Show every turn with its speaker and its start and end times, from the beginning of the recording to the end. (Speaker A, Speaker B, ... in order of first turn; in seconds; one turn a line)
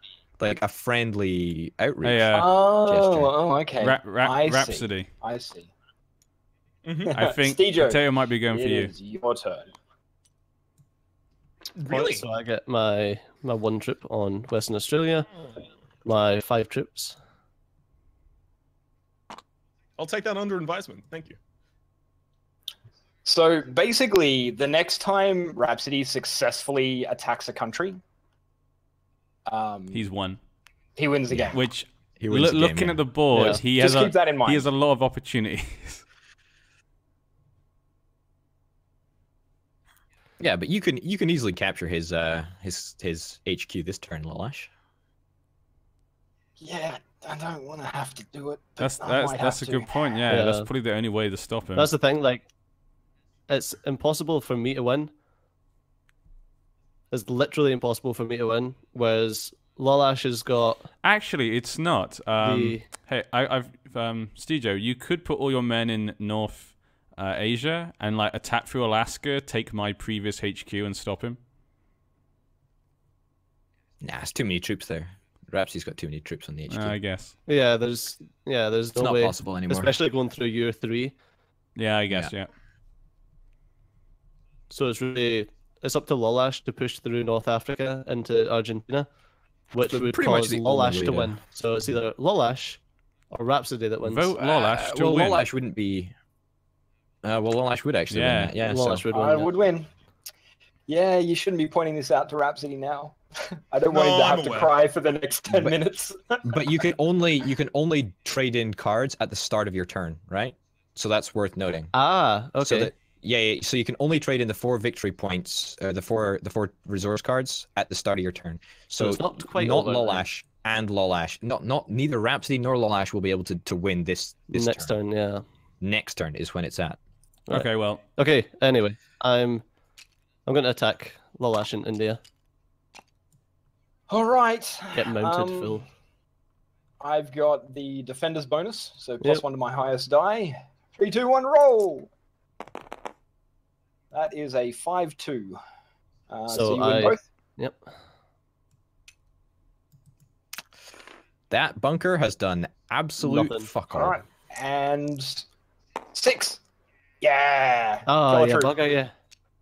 Speaker A: 0.4-3.3
Speaker B: 2.0-2.5
Speaker C: 2.3-5.7
Speaker B: 3.8-5.1
Speaker D: 6.8-7.2
Speaker C: 7.0-8.0
Speaker B: 7.2-8.9
Speaker C: 8.5-9.7
Speaker D: 11.8-12.2
Speaker E: 11.9-15.3
Speaker E: 16.1-17.2
Speaker D: 20.0-21.4
Speaker C: 23.2-28.0
Speaker C: 29.5-30.0
Speaker B: 29.9-30.4
Speaker C: 31.0-31.6
Speaker A: 31.3-31.6
Speaker B: 31.5-36.0
Speaker A: 32.2-33.0
Speaker E: 33.3-33.6
Speaker C: 33.8-34.7
Speaker A: 40.4-44.7
Speaker C: 46.6-50.0
Speaker B: 48.8-51.9
Speaker E: 50.3-50.7
Speaker E: 51.8-52.5
Speaker E: 53.5-55.1
Speaker E: 57.1-60.9
Speaker B: 61.0-71.4
Speaker E: 62.4-62.9
Speaker A: 74.0-77.0
Speaker B: 76.7-77.3
Speaker E: 77.5-81.2
Speaker A: 79.0-79.9
Speaker B: 81.8-82.5
Speaker E: 84.7-89.1
Speaker E: 89.7-92.8
Speaker A: 89.8-91.4
Speaker E: 93.3-94.3
Speaker B: 94.0-95.4
Speaker A: 94.4-96.1
Speaker A: 97.2-99.0
Speaker B: 98.1-98.5
Speaker E: 98.6-99.5
Speaker C: 99.1-99.9
Speaker C: 100.9-106.6
Speaker D: 103.9-104.7
Speaker A: 105.5-105.8
Speaker A: 106.4-111.9
Speaker E: 111.9-112.9
Speaker A: 112.6-124.9
Speaker E: 119.0-120.3
Speaker E: 124.5-125.5
Speaker A: 125.8-127.0
Speaker E: 127.5-129.7
Speaker B: 127.5-128.0
Speaker E: 130.5-132.2
Speaker C: 134.1-135.8
Speaker E: 134.9-135.8
Speaker C: 137.0-142.1
Speaker C: 144.1-145.6
Speaker C: 146.3-147.2
Speaker E: 146.5-147.8
Speaker A: 151.5-154.2
Speaker E: 153.2-153.7
Speaker C: 153.9-155.4
Speaker C: 156.1-156.6
Speaker C: 157.2-158.8
Speaker E: 158.1-159.1